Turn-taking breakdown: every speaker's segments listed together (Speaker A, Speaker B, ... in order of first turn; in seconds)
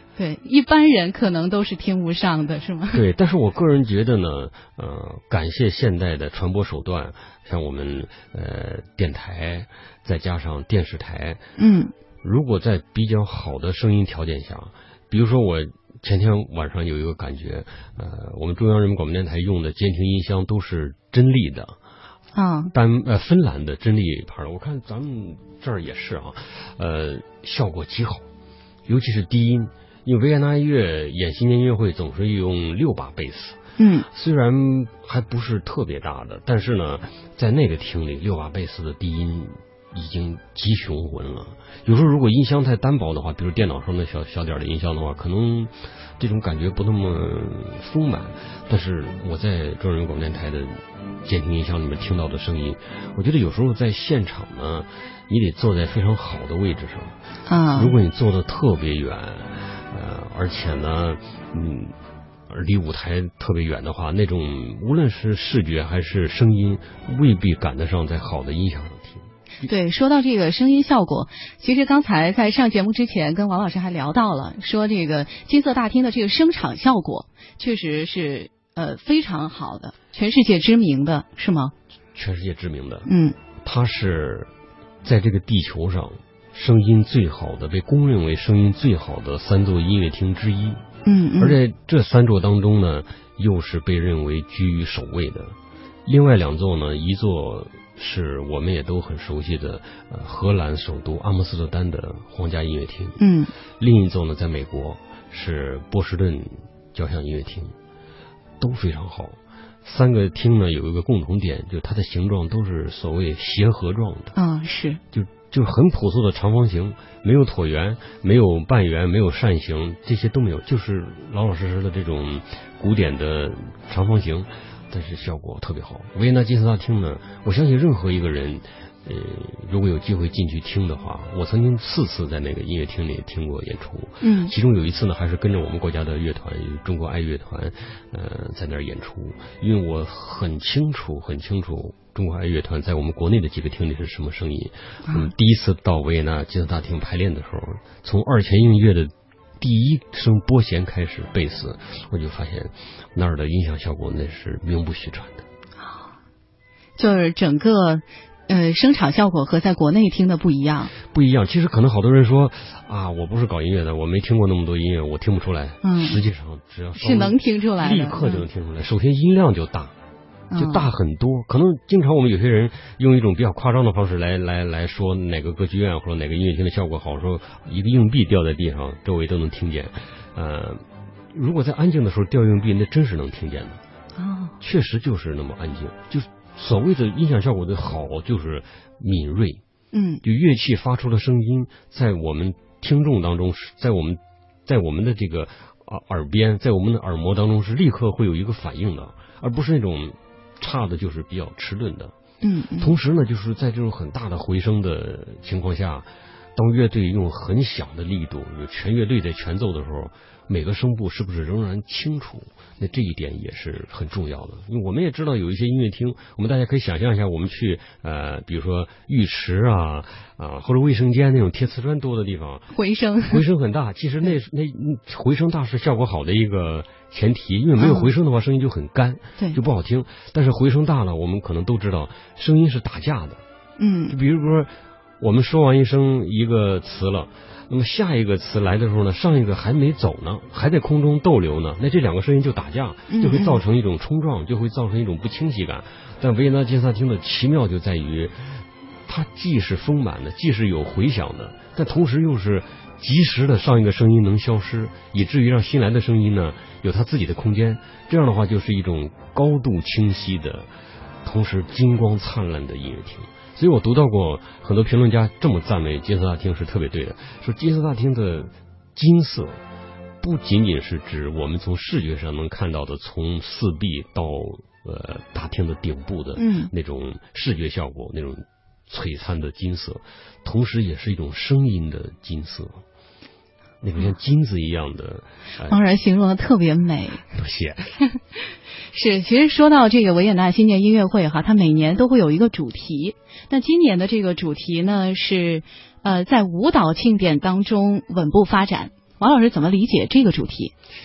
Speaker A: 0.2-3.0, 11.6-11.9, 22.4-22.7, 33.8-34.1, 57.5-57.9, 69.6-81.7, 83.1-83.3, 91.0-91.6, 103.2-103.5, 114.3-115.0, 134.2-134.5, 155.8-156.1, 157.0-160.9, 165.8-166.2, 167.0-168.4, 170.5-170.9, 184.2-184.5, 189.9-190.2, 202.4-202.9, 222.7-223.4, 227.8-228.1, 233.8-234.2, 243.1-243.6, 276.4-276.7, 285.7-287.2, 288.9-300.7
Speaker B: 2.9-11.4, 12.2-21.8, 22.7-28.3, 28.9-57.2, 57.8-62.0, 62.5-69.7, 82.1-83.1, 83.6-84.5, 85.0-90.8, 91.4-103.2, 103.8-107.8, 108.6-114.4, 115.1-155.5, 161.0-169.9, 170.6-183.8, 184.6-189.6, 190.2-202.1, 202.8-222.7, 223.3-233.4, 234.1-260.7, 261.2-269.6, 270.2-282.8, 283.8-285.8, 287.3-287.9